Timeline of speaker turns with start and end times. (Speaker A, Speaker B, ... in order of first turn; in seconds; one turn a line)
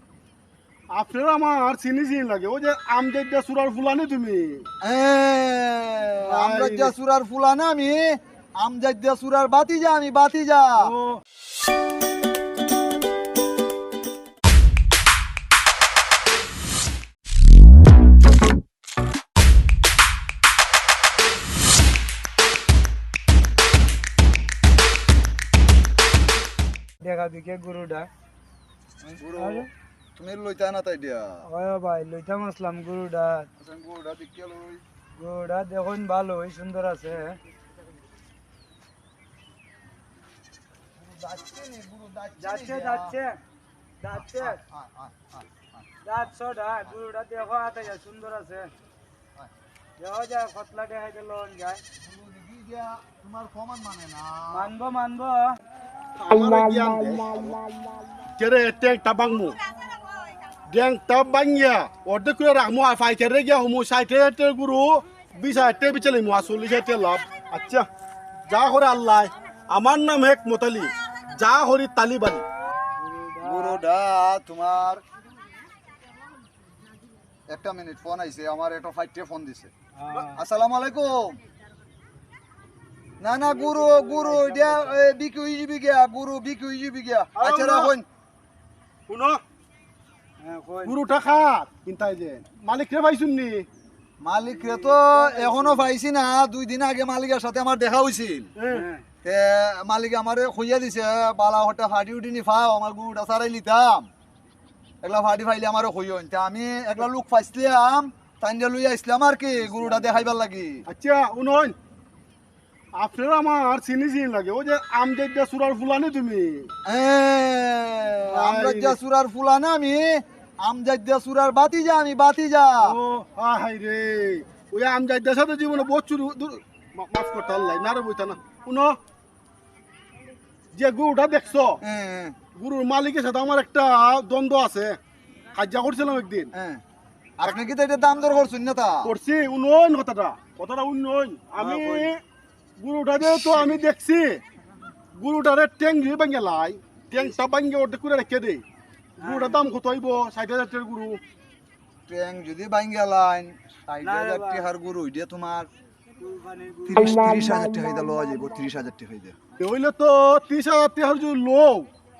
Speaker A: 0.9-4.7
Speaker B: 4.8-10.9
Speaker A: 6.2-6.9
Speaker A: 10.8-11.2
Speaker C: 27.0-28.1
Speaker B: 29.0-31.5
Speaker C: 29.4-29.7
Speaker C: 31.4-33.5
Speaker B: 33.6-34.8
Speaker C: 35.2-37.4
Speaker B: 41.0-43.1
Speaker C: 42.4-43.4
Speaker C: 44.0-44.6
Speaker B: 44.1-45.9
Speaker C: 46.0-48.7
Speaker C: 50.0-51.8
Speaker B: 51.9-54.7
Speaker C: 54.5-55.5
Speaker A: 56.2-57.5
Speaker A: 58.4-59.5
Speaker A: 60.7-67.9
Speaker A: 68.5-72.4
Speaker C: 73.0-73.8
Speaker B: 73.4-75.0
Speaker B: 77.5-79.7
Speaker C: 80.0-80.4
Speaker B: 80.3-81.4
Speaker B: 83.2-88.0
Speaker C: 83.5-85.0
Speaker A: 87.3-87.9
Speaker A: 89.1-89.4
Speaker C: 90.4-91.0
Speaker A: 90.8-93.7
Speaker B: 94.2-98.5
Speaker C: 94.5-95.7
Speaker A: 98.5-98.8
Speaker C: 98.7-99.0
Speaker B: 99.2-104.1
Speaker B: 105.0-110.8
Speaker A: 110.9-111.8
Speaker A: 113.0-116.7
Speaker B: 116.8-123.0
Speaker A: 118.3-119.0
Speaker A: 122.8-129.0
Speaker A: 130.7-131.8
Speaker B: 131.8-132.3
Speaker A: 132.5-135.0
Speaker A: 135.5-136.5
Speaker B: 136.5-136.8
Speaker B: 137.4-139.1
Speaker A: 139.0-142.2
Speaker C: 141.6-142.1
Speaker A: 142.8-144.4
Speaker A: 145.1-148.6
Speaker A: 149.2-151.2
Speaker C: 149.2-149.6
Speaker B: 152.1-155.7
Speaker C: 154.0-154.7
Speaker C: 156.2-157.5
Speaker B: 156.9-159.3
Speaker A: 159.6-161.9